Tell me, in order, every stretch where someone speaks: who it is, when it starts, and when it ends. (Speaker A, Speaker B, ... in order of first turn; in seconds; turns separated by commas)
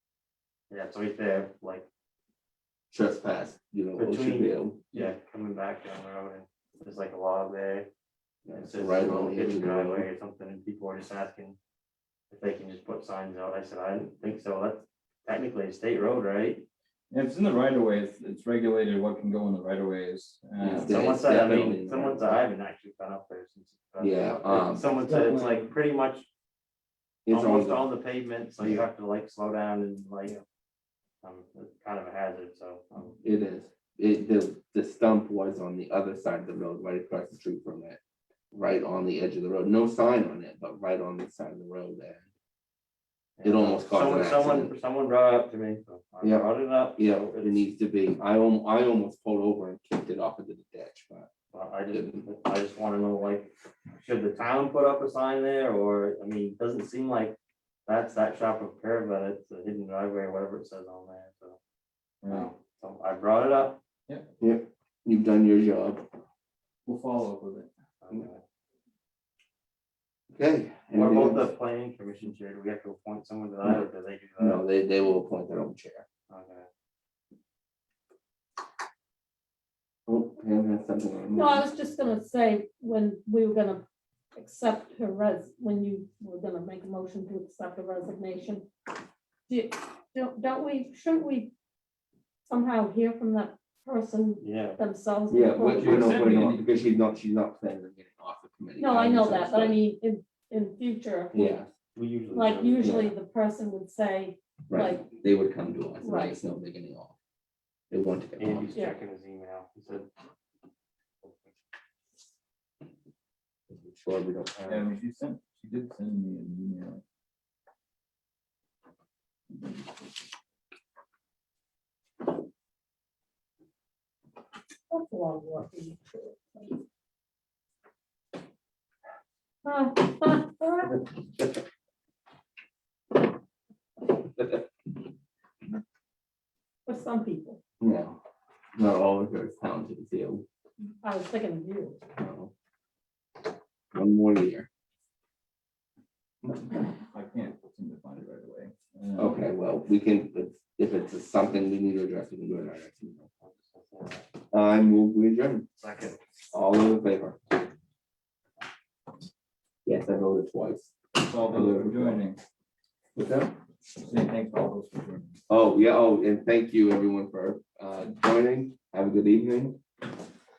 Speaker A: 0.7-1.9, Speaker B: 2.9-5.0, Speaker A: 3.9-7.9, Speaker B: 8.4-10.1, Speaker A: 8.5-11.6, Speaker A: 12.3-16.7, Speaker C: 17.1-20.9, Speaker B: 20.6-22.4, Speaker A: 20.8-26.3, Speaker B: 24.0-24.9, Speaker C: 25.0-25.7, Speaker B: 27.2-27.9, Speaker A: 27.3-30.4, Speaker A: 31.2-33.2, Speaker B: 33.2-38.0, Speaker B: 38.5-42.2, Speaker A: 43.4-47.6, Speaker B: 43.4-44.7, Speaker B: 46.2-51.3, Speaker A: 51.5-61.6, Speaker B: 51.9-52.3, Speaker C: 62.2-62.5, Speaker A: 62.3-63.8, Speaker B: 64.4-66.0, Speaker C: 66.8-67.7, Speaker A: 68.0-68.4, Speaker B: 70.3-71.5, Speaker A: 70.9-74.6, Speaker B: 74.4-76.0, Speaker A: 76.3-76.7, Speaker B: 80.1-81.7, Speaker D: 81.3-83.8, Speaker D: 84.3-88.7, Speaker D: 89.5-91.5, Speaker D: 92.5-96.2, Speaker A: 94.4-94.8, Speaker B: 95.3-99.8, Speaker C: 95.7-96.6, Speaker D: 98.8-101.5, Speaker B: 101.3-101.7, Speaker A: 101.9-103.0, Speaker D: 102.3-105.0, Speaker B: 102.8-103.1, Speaker B: 104.7-107.1, Speaker D: 106.0-106.4, Speaker B: 107.9-108.8, Speaker A: 108.4-110.1, Speaker D: 108.7-109.0, Speaker A: 111.2-111.5, Speaker B: 113.7-114.9, Speaker C: 114.7-117.0, Speaker D: 124.9-126.7, Speaker D: 129.6-130.9, Speaker B: 134.4-134.6, Speaker D: 136.8-137.6, Speaker B: 137.8-138.2, Speaker B: 138.7-140.4, Speaker D: 141.0-142.0, Speaker B: 142.2-142.5, Speaker B: 143.9-144.7, Speaker C: 147.1-149.5, Speaker B: 149.2-153.3, Speaker A: 153.4-154.3, Speaker B: 154.5-155.7, Speaker A: 155.8-156.2, Speaker B: 156.5-157.4, Speaker B: 159.8-162.2, Speaker C: 161.2-162.4, Speaker B: 163.1-163.5, Speaker C: 164.0-165.4, Speaker B: 165.5-169.8